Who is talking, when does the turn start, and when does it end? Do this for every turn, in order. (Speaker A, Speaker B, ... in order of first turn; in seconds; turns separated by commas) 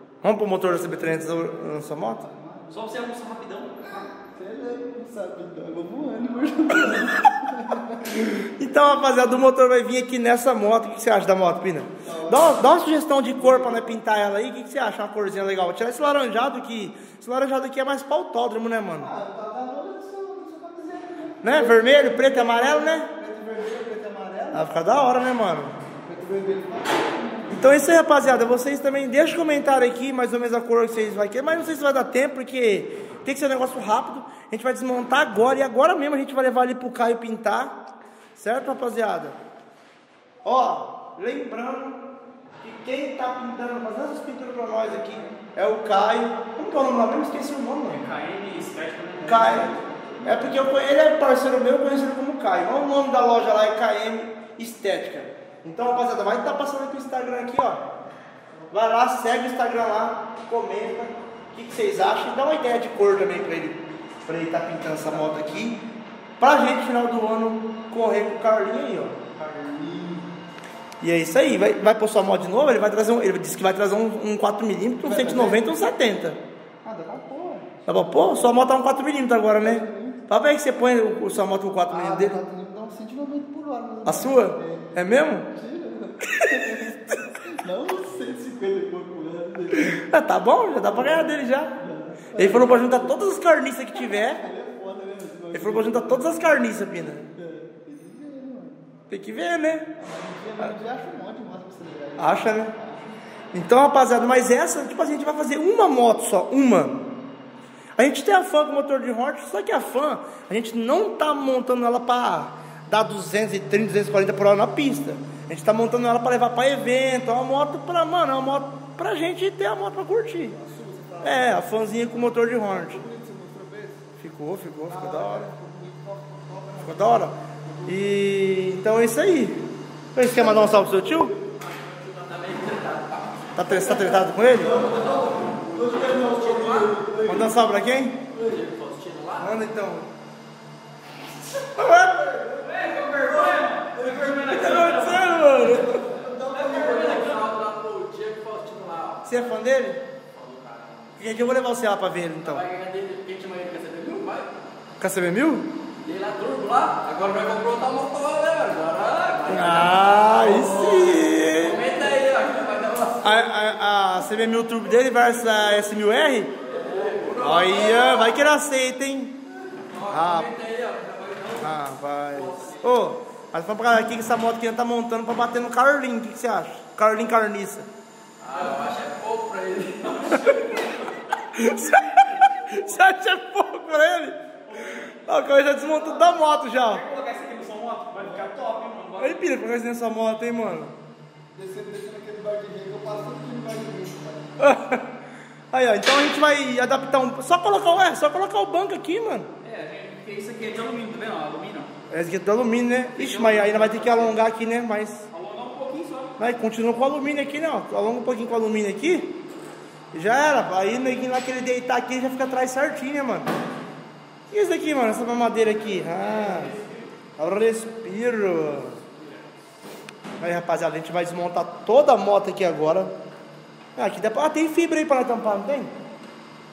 Speaker A: 0.2-2.3, Speaker B: 0.9-1.3, Speaker B: 2.2-2.8, Speaker C: 2.7-3.8, Speaker B: 3.8-8.0, Speaker A: 8.1-19.1, Speaker B: 12.0-12.7, Speaker B: 13.3-13.9, Speaker B: 19.0-24.7, Speaker A: 21.4-23.1, Speaker A: 24.5-25.7, Speaker B: 26.0-27.8, Speaker A: 27.5-37.8, Speaker A: 38.3-39.4, Speaker A: 40.4-42.0, Speaker A: 42.6-48.0, Speaker C: 47.9-49.3, Speaker A: 49.2-57.8, Speaker B: 49.3-50.3, Speaker A: 58.7-65.8, Speaker A: 66.4-69.2, Speaker B: 69.3-70.3, Speaker A: 71.0-76.4, Speaker B: 75.0-75.8, Speaker B: 76.8-77.9, Speaker A: 77.9-82.4, Speaker B: 79.6-80.2, Speaker B: 81.9-90.0, Speaker A: 84.0-85.5, Speaker A: 89.7-91.8, Speaker B: 90.7-93.2, Speaker A: 92.3-94.4, Speaker B: 93.9-98.8, Speaker A: 95.5-97.2, Speaker A: 99.1-99.9, Speaker B: 100.0-103.1, Speaker A: 102.2-102.8, Speaker A: 103.5-107.1, Speaker A: 108.0-120.6, Speaker B: 120.6-124.0, Speaker A: 121.2-123.0, Speaker A: 124.2-125.5, Speaker B: 124.9-128.0, Speaker A: 126.8-131.3, Speaker B: 130.4-130.8, Speaker D: 131.8-133.4, Speaker A: 133.6-134.8, Speaker B: 134.1-137.6, Speaker D: 134.7-136.9, Speaker A: 137.2-138.2, Speaker D: 138.3-139.5, Speaker A: 139.4-140.1, Speaker A: 141.7-142.5, Speaker C: 142.6-145.3, Speaker B: 142.8-143.5, Speaker D: 143.1-144.0, Speaker A: 144.4-146.1, Speaker B: 145.6-147.4, Speaker C: 146.5-147.3, Speaker D: 146.6-149.3, Speaker A: 149.2-150.0, Speaker D: 150.3-151.1, Speaker A: 151.2-152.6, Speaker D: 152.4-154.6, Speaker A: 155.0-155.7, Speaker D: 156.0-163.5, Speaker A: 159.5-161.8, Speaker A: 163.2-166.5, Speaker D: 166.6-168.4, Speaker A: 167.3-169.4, Speaker D: 169.8-171.8, Speaker A: 170.1-170.5, Speaker A: 171.6-177.9, Speaker D: 172.3-172.8, Speaker D: 178.4-181.1, Speaker A: 180.3-187.1, Speaker C: 186.8-189.5, Speaker D: 187.4-188.1, Speaker B: 188.2-188.8, Speaker A: 189.2-190.9, Speaker B: 191.5-194.6, Speaker A: 194.6-195.0, Speaker A: 195.7-199.5, Speaker C: 199.6-201.9, Speaker A: 202.1-205.3, Speaker C: 203.2-204.4, Speaker C: 205.3-206.3, Speaker A: 206.4-209.4, Speaker A: 210.1-213.5, Speaker A: 214.5-216.7, Speaker D: 216.5-216.9, Speaker A: 217.4-219.0, Speaker A: 220.4-223.1, Speaker A: 223.9-225.9